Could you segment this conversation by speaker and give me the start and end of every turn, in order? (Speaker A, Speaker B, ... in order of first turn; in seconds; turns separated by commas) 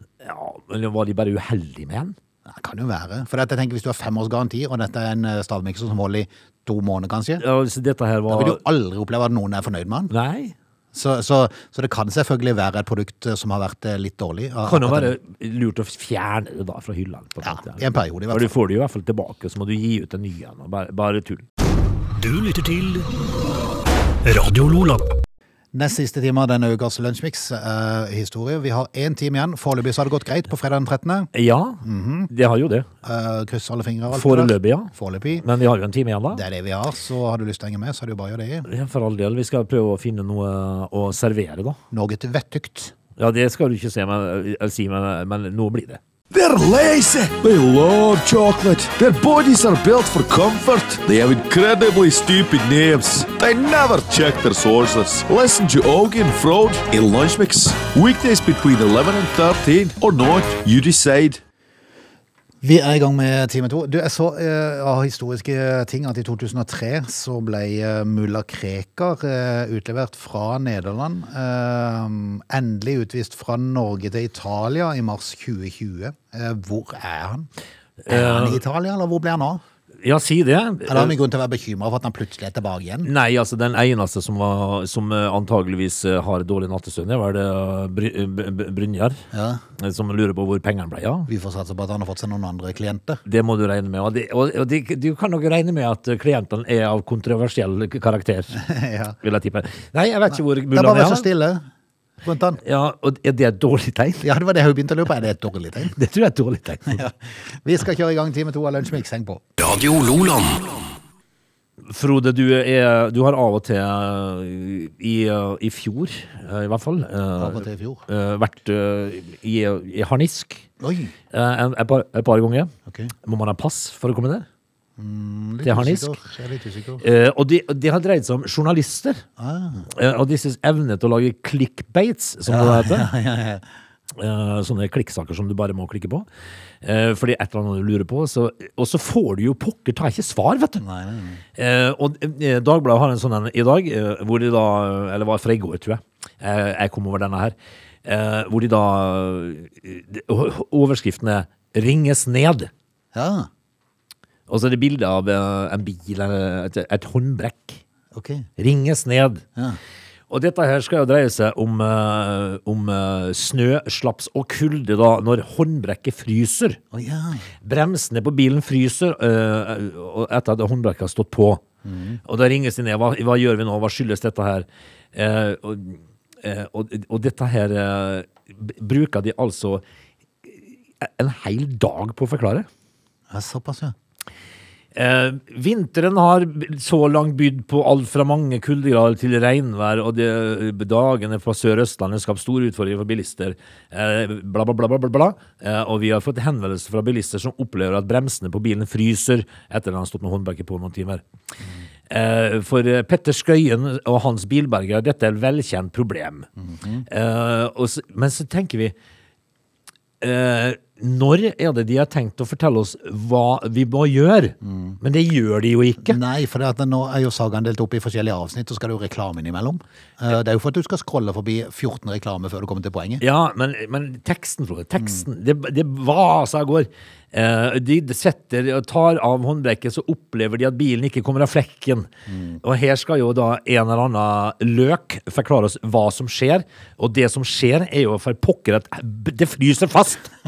Speaker A: 0.2-2.1, Speaker B: 2.5-7.4, Speaker A: 7.4-8.6, Speaker B: 8.3-10.1, Speaker A: 10.1-10.5, Speaker B: 10.9-15.1, Speaker A: 14.6-21.4, Speaker B: 17.4-18.5, Speaker C: 22.1-23.1, Speaker C: 24.2-25.1, Speaker B: 25.7-31.3, Speaker A: 31.3-32.9, Speaker B: 31.8-32.3, Speaker B: 33.0-35.4, Speaker A: 34.1-36.4, Speaker B: 36.3-38.7, Speaker A: 38.6-41.8, Speaker B: 41.9-42.9, Speaker A: 43.2-46.0, Speaker D: 46.3-61.4, Speaker B: 62.6-77.5, Speaker A: 78.0-78.6, Speaker B: 78.1-79.6, Speaker A: 80.0-81.2, Speaker B: 80.9-83.1, Speaker A: 83.0-89.2, Speaker B: 89.3-89.6, Speaker A: 89.8-91.3, Speaker B: 91.3-93.2, Speaker A: 93.2-98.6, Speaker B: 98.5-99.2, Speaker A: 99.2-101.3, Speaker B: 100.7-101.6, Speaker B: 102.2-102.6, Speaker A: 102.6-104.2, Speaker B: 104.2-106.0, Speaker A: 105.9-107.0, Speaker B: 106.9-109.4, Speaker C: 109.6-111.0, Speaker A: 111.8-120.6, Speaker B: 117.4-118.0, Speaker B: 120.8-121.1, Speaker A: 121.3-122.7, Speaker B: 122.9-123.1, Speaker A: 123.2-124.5, Speaker B: 125.0-127.0, Speaker A: 125.6-126.2, Speaker A: 127.0-129.2, Speaker B: 129.4-129.9, Speaker A: 129.9-133.1, Speaker B: 132.5-133.6, Speaker A: 134.1-136.3, Speaker A: 136.8-140.8, Speaker B: 140.8-141.4, Speaker A: 141.6-152.7, Speaker B: 153.1-153.5, Speaker A: 154.5-157.8, Speaker B: 158.1-158.5, Speaker A: 158.6-159.4, Speaker A: 160.3-166.8, Speaker B: 166.9-167.4, Speaker A: 167.6-171.6, Speaker B: 171.8-172.2, Speaker A: 172.2-179.8, Speaker A: 180.5-182.7, Speaker B: 183.3-183.9, Speaker A: 184.9-201.2, Speaker A: 202.1-206.5, Speaker B: 206.6-207.1, Speaker A: 207.1-208.9, Speaker A: 210.2-216.2, Speaker B: 214.6-215.0, Speaker B: 216.0-223.2, Speaker A: 223.2-232.1, Speaker B: 232.3-232.6, Speaker A: 232.6-240.3